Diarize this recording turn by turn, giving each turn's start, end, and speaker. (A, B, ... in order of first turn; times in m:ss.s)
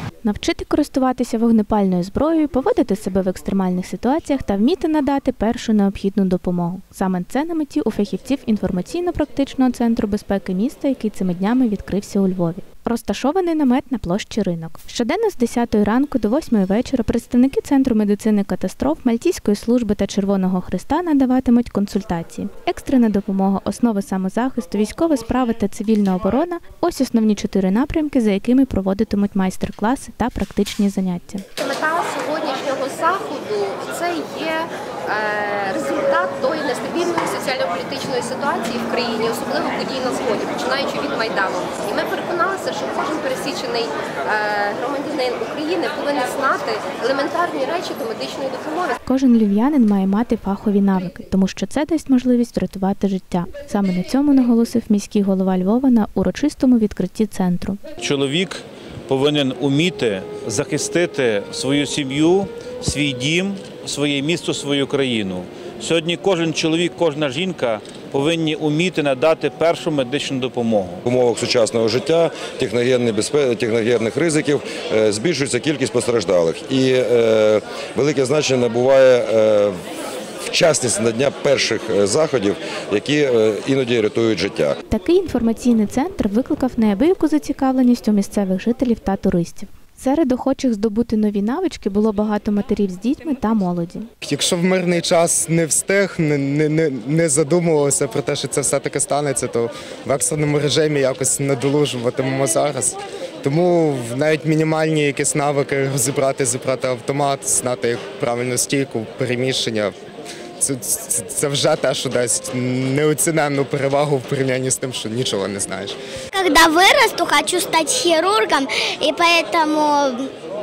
0:00.2-0:31.4 A
0:31.6-0:49.0 B
0:49.0-0:57.8 A
0:58.0-1:11.0 C
1:11.0-1:19.7 D
1:20.4-1:24.8 D
1:24.9-1:34.1 A
1:34.2-1:50.0 E
1:50.6-1:56.0 E
1:56.3-2:00.3 F